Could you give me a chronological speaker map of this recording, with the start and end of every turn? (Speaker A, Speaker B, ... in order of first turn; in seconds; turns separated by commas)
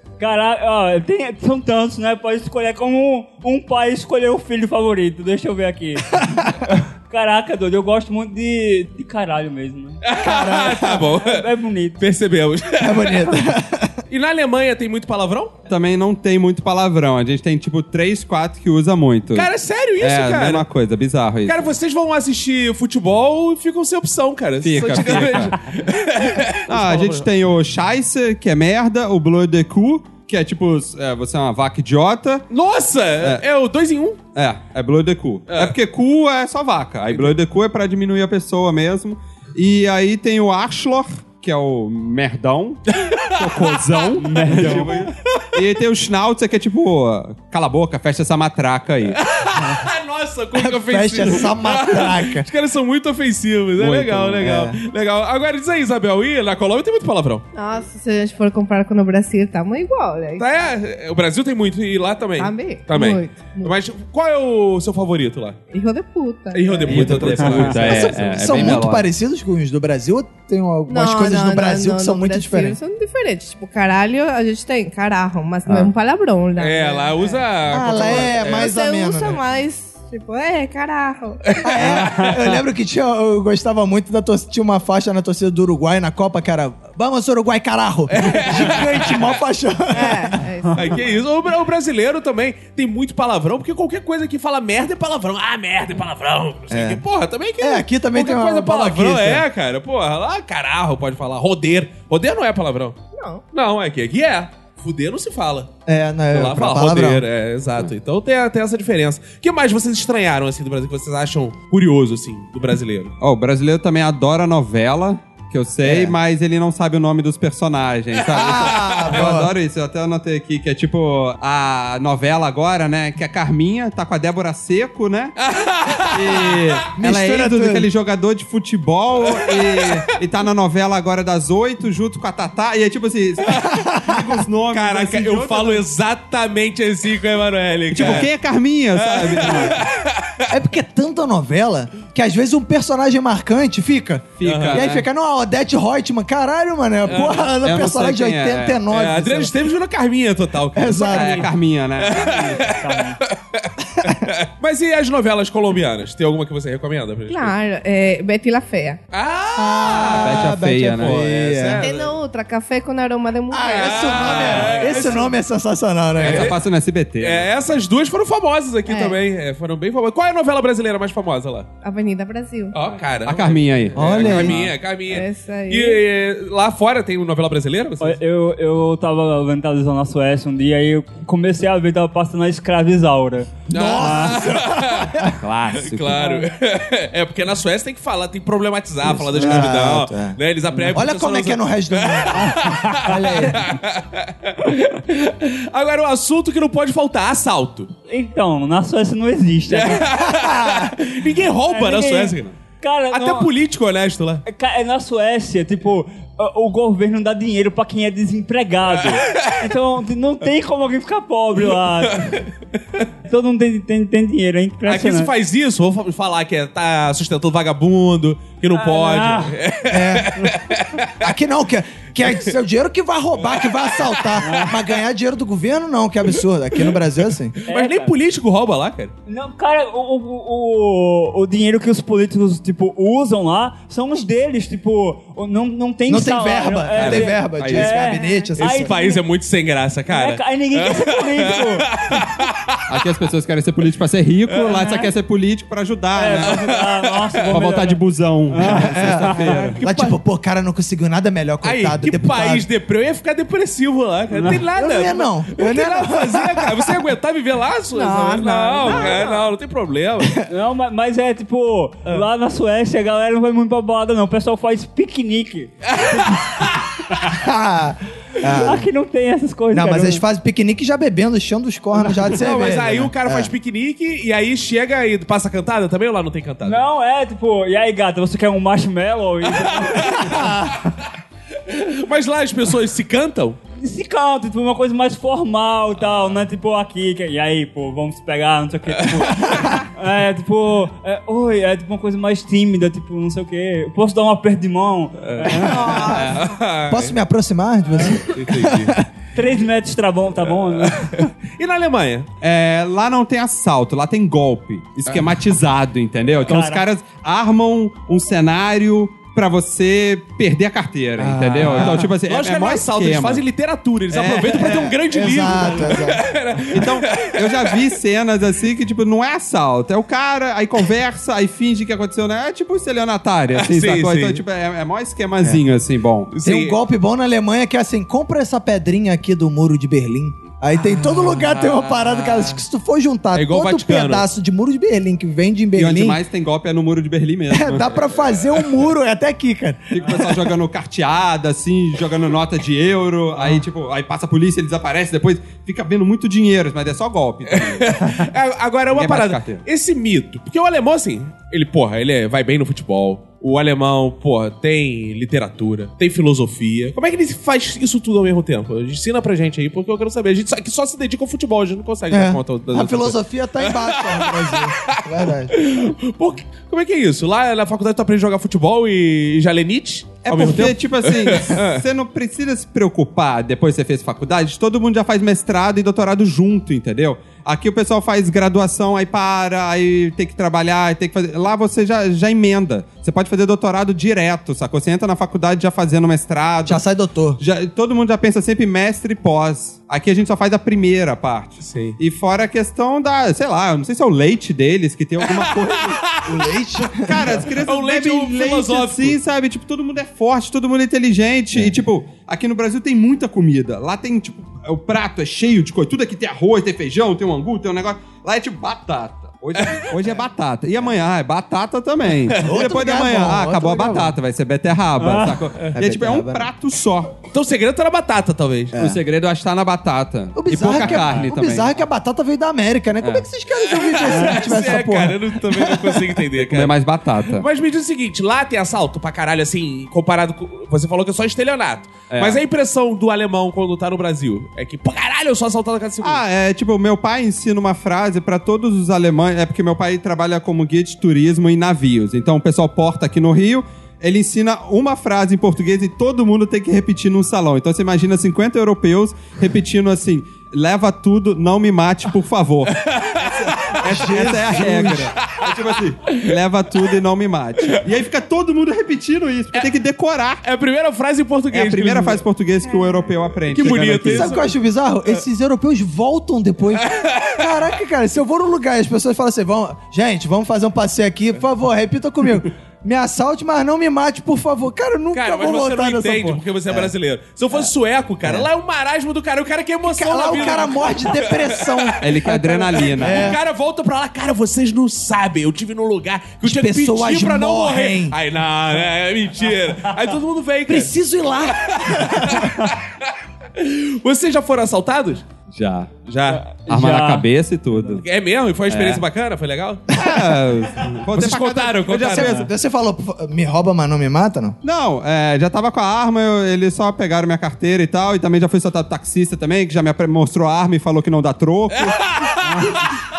Speaker A: 0.2-10.0, Speaker B: 10.0-11.5, Speaker C: 10.2-11.1, Speaker A: 11.1-12.0, Speaker B: 12.0-13.3, Speaker C: 12.8-14.0, Speaker B: 14.1-15.6, Speaker D: 15.7-21.6, Speaker B: 19.3-20.7, Speaker B: 21.5-27.3, Speaker D: 24.6-25.6, Speaker D: 26.7-32.5, Speaker B: 32.5-34.2, Speaker D: 34.4-49.2, Speaker B: 35.5-35.8, Speaker B: 42.9-43.8, Speaker A: 44.2-44.9, Speaker B: 44.5-45.1, Speaker B: 49.2-57.5, Speaker C: 50.5-52.5, Speaker D: 53.8-54.5, Speaker C: 54.4-54.8, Speaker E: 57.5-60.5, Speaker B: 60.4-65.6, Speaker E: 62.4-63.8, Speaker E: 65.7-67.3, Speaker B: 66.5-68.8, Speaker D: 66.9-69.1, Speaker A: 67.4-67.7, Speaker C: 67.9-72.8, Speaker E: 70.9-81.6, Speaker B: 76.6-78.7, Speaker C: 77.7-79.4, Speaker B: 81.5-81.8, Speaker C: 81.6-90.4, Speaker A: 81.8-82.4, Speaker B: 88.1-89.4, Speaker E: 89.9-91.2, Speaker B: 90.7-103.0, Speaker C: 96.7-97.0, Speaker C: 97.6-99.5, Speaker E: 103.2-103.4, Speaker B: 103.5-105.7, Speaker C: 105.9-107.2, Speaker B: 106.3-113.1, Speaker D: 113.2-125.4, Speaker C: 115.8-116.2, Speaker C: 118.3-119.5, Speaker B: 118.6-119.2, Speaker B: 125.4-126.8, Speaker D: 126.1-135.8, Speaker C: 127.0-127.9, Speaker B: 129.3-130.0, Speaker C: 134.0-134.3, Speaker B: 134.7-138.3, Speaker D: 137.9-139.8, Speaker B: 139.0-140.4, Speaker C: 140.5-149.5, Speaker D: 144.4-145.1, Speaker B: 144.4-144.8, Speaker B: 147.1-147.5, Speaker D: 147.6-148.8, Speaker B: 148.9-151.4, Speaker C: 150.8-151.5, Speaker D: 151.0-152.7, Speaker B: 152.0-157.6, Speaker A: 152.1-153.2, Speaker E: 157.3-159.0, Speaker B: 159.1-162.2, Speaker C: 159.6-161.8, Speaker D: 160.1-161.2, Speaker E: 161.8-165.2, Speaker C: 163.5-166.5, Speaker B: 163.7-165.3, Speaker B: 166.2-166.6, Speaker D: 166.2-167.5, Speaker B: 167.2-171.7, Speaker E: 168.9-169.2, Speaker E: 171.8-172.8, Speaker B: 172.7-178.2, Speaker D: 173.2-174.7, Speaker C: 173.9-174.7, Speaker E: 175.1-176.0, Speaker A: 178.0-184.4, Speaker B: 183.7-185.2, Speaker C: 183.7-185.3, Speaker D: 185.4-186.3, Speaker B: 185.7-197.9, Speaker A: 186.2-186.4, Speaker C: 189.0-190.4, Speaker A: 189.4-189.7, Speaker C: 190.9-193.7, Speaker A: 192.4-193.2, Speaker A: 198.1-200.1, Speaker B: 199.7-202.6, Speaker C: 200.2-201.0, Speaker A: 201.7-203.5, Speaker B: 203.1-204.4, Speaker A: 204.5-212.4, Speaker B: 212.1-212.4, Speaker A: 213.3-215.3, Speaker B: 214.9-221.2, Speaker A: 218.7-219.6, Speaker C: 219.9-220.5, Speaker C: 221.2-227.6, Speaker A: 224.4-224.8, Speaker B: 227.6-229.1, Speaker A: 227.7-228.1, Speaker A: 229.3-239.2, Speaker C: 236.1-238.9, Speaker B: 237.0-237.9, Speaker B: 238.6-242.8, Speaker A: 240.1-242.2, Speaker D: 242.9-246.6, Speaker A: 244.7-245.1, Speaker A: 246.2-249.8, Speaker B: 246.4-247.4, Speaker D: 247.5-249.8, Speaker C: 248.8-252.7, Speaker B: 249.7-250.2, Speaker B: 251.6-260.4, Speaker C: 254.7-256.9, Speaker E: 257.9-259.5, Speaker A: 260.5-266.7, Speaker B: 265.9-266.9, Speaker C: 267.3-268.9, Speaker A: 268.6-270.2, Speaker C: 269.7-273.5, Speaker B: 272.2-276.8, Speaker A: 276.6-280.5, Speaker B: 279.6-280.2, Speaker C: 280.3-280.7, Speaker B: 281.7-283.6, Speaker A: 283.8-296.0, Speaker B: 295.2-297.1, Speaker E: 295.6-296.5, Speaker C: 295.9-296.2, Speaker C: 296.9-299.1, Speaker B: 298.3-298.9, Speaker A: 299.4-301.3, Speaker B: 300.8-302.3, Speaker D: 302.4-313.4, Speaker A: 306.5-306.8, Speaker B: 311.2-317.8, Speaker C: 311.3-312.0, Speaker D: 314.1-314.8, Speaker C: 314.6-316.2, Speaker D: 316.7-326.3, Speaker B: 323.5-324.4, Speaker B: 326.3-326.8, Speaker C: 326.4-336.2, Speaker B: 330.9-332.6, Speaker B: 333.3-334.3, Speaker D: 335.8-337.9, Speaker C: 337.5-340.1, Speaker B: 337.8-338.6, Speaker D: 339.9-348.2, Speaker B: 347.5-371.8, Speaker D: 348.9-349.6, Speaker C: 362.1-365.6, Speaker D: 370.2-386.8, Speaker C: 386.6-387.4, Speaker D: 387.4-396.0, Speaker B: 391.6-392.0, Speaker B: 395.3-396.2, Speaker C: 396.2-397.3, Speaker D: 397.0-417.1, Speaker B: 397.5-399.2, Speaker B: 409.6-409.9, Speaker C: 412.4-414.1, Speaker A: 415.0-415.4, Speaker C: 415.8-416.5, Speaker B: 417.3-418.8, Speaker C: 418.7-419.0, Speaker D: 418.8-421.7, Speaker C: 420.4-426.0, Speaker A: 420.8-421.3, Speaker D: 423.0-423.3, Speaker B: 423.7-426.7, Speaker A: 424.1-424.5, Speaker D: 426.4-427.5, Speaker B: 427.3-436.2, Speaker D: 432.1-432.4, Speaker D: 436.0-460.4, Speaker B: 452.8-453.9, Speaker C: 453.8-455.1, Speaker B: 460.4-462.2, Speaker D: 461.5-464.4, Speaker E: 462.6-463.2, Speaker B: 463.5-464.5, Speaker C: 464.0-476.9, Speaker B: 466.8-467.5, Speaker B: 475.1-490.9, Speaker C: 479.8-483.4, Speaker D: 482.0-483.4, Speaker C: 486.4-488.2, Speaker C: 490.7-492.5, Speaker B: 491.5-495.3, Speaker D: 495.5-495.9, Speaker B: 496.1-496.4, Speaker A: 496.3-498.0, Speaker D: 496.6-498.0, Speaker B: 498.0-499.9, Speaker D: 498.7-499.0, Speaker D: 499.9-502.5, Speaker B: 501.1-502.3, Speaker C: 502.0-504.6, Speaker D: 504.6-512.0, Speaker B: 511.8-512.4, Speaker A: 512.4-512.8